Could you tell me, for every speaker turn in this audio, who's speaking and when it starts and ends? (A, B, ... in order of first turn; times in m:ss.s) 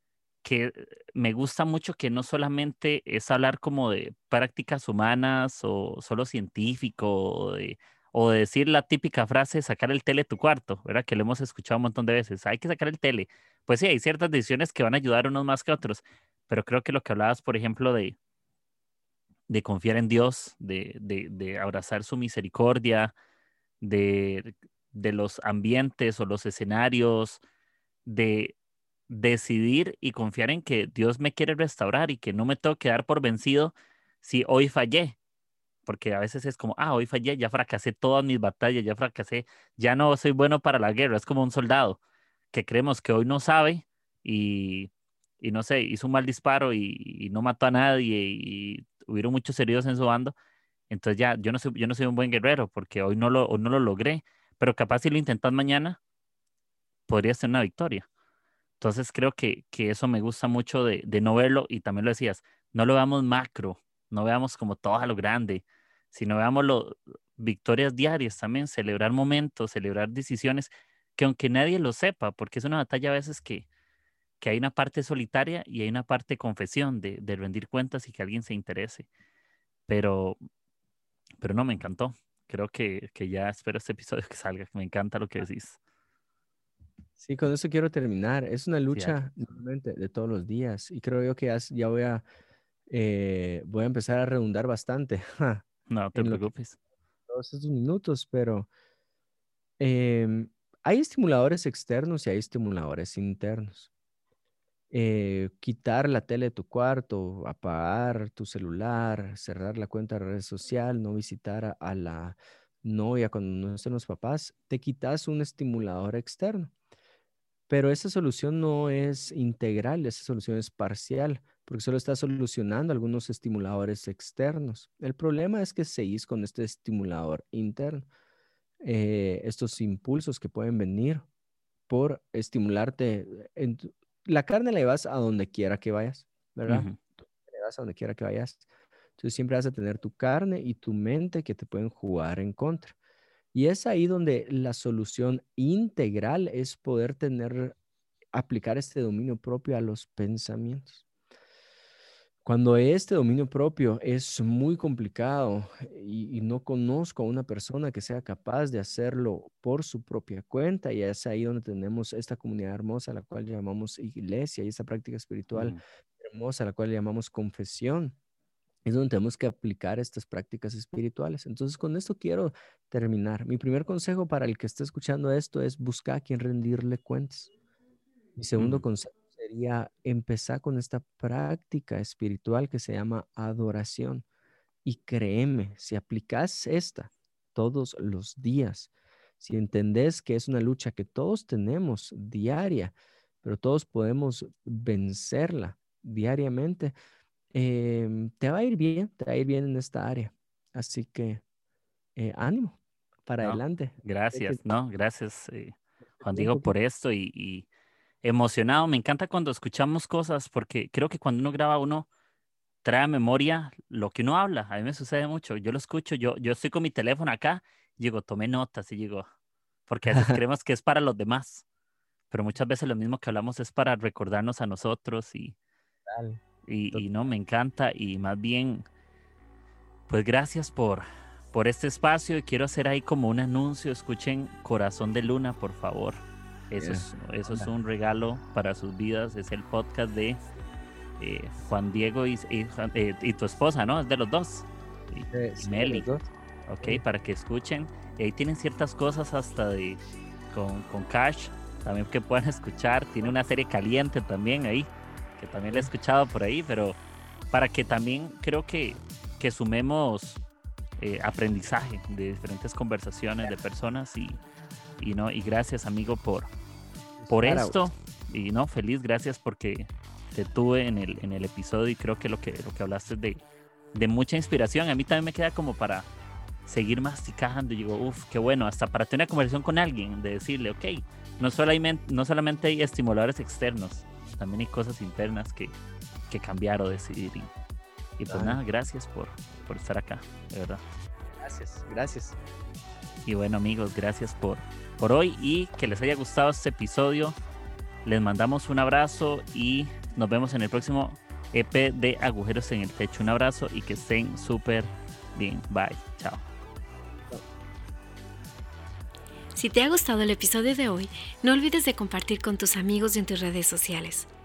0:00.4-0:18.2 A
0:19.5-0:23.1 A
0:23.8-0:27.4 A
0:28.1-0:28.6 A
0:29.1-0:35.2 A
0:35.9-0:42.0 A
0:42.5-0:44.9 A
0:45.4-0:50.4 A
0:50.9-0:56.0 A
0:57.1-0:58.1 A
0:58.8-1:13.7 A
1:14.4-1:19.1 A
1:19.9-1:20.4 A
1:21.4-1:25.8 A
1:27.2-1:32.2 B
1:32.9-1:36.5 B
1:35.9-1:36.8 A
1:37.3-1:38.7 B
1:39.8-1:43.9 B
1:44.9-1:56.7 B
1:57.7-2:08.1 B
2:08.8-2:11.3 B
2:11.9-2:18.6 B
2:16.7-2:17.0 A
2:19.2-2:23.0 B
2:23.5-2:27.8 B
2:28.3-2:31.0 B
2:32.4-2:48.2 B
2:45.5-2:45.8 A
2:48.8-2:57.5 B
2:58.4-3:04.2 B
2:58.6-2:58.8 A
3:04.8-3:17.0 B
3:17.5-3:21.4 B
3:22.2-3:24.6 B
3:23.4-3:27.7 A
3:26.2-3:26.7 B
3:28.2-3:32.1 A
3:32.8-3:39.3 A
3:39.9-3:41.6 A
3:40.1-3:40.4 B
3:42.3-3:45.6 A
3:46.1-3:46.4 B
3:46.7-3:48.8 A
3:50.1-4:00.4 A
3:56.8-3:57.7 B
4:01.2-4:06.1 A
4:05.3-4:06.3 B
4:06.7-4:10.0 A
4:10.5-4:17.0 A
4:17.5-4:20.4 A
4:21.0-4:24.4 A
4:25.0-4:26.5 A
4:27.2-4:27.8 B
4:27.3-4:33.4 A
4:33.9-4:36.1 A
4:36.7-4:45.8 A
4:46.3-4:47.5 A
4:48.2-4:50.8 A
4:48.3-4:48.6 B
4:51.4-4:52.4 B
4:53.2-4:57.4 A
4:58.0-5:06.4 A
5:09.6-5:14.3 C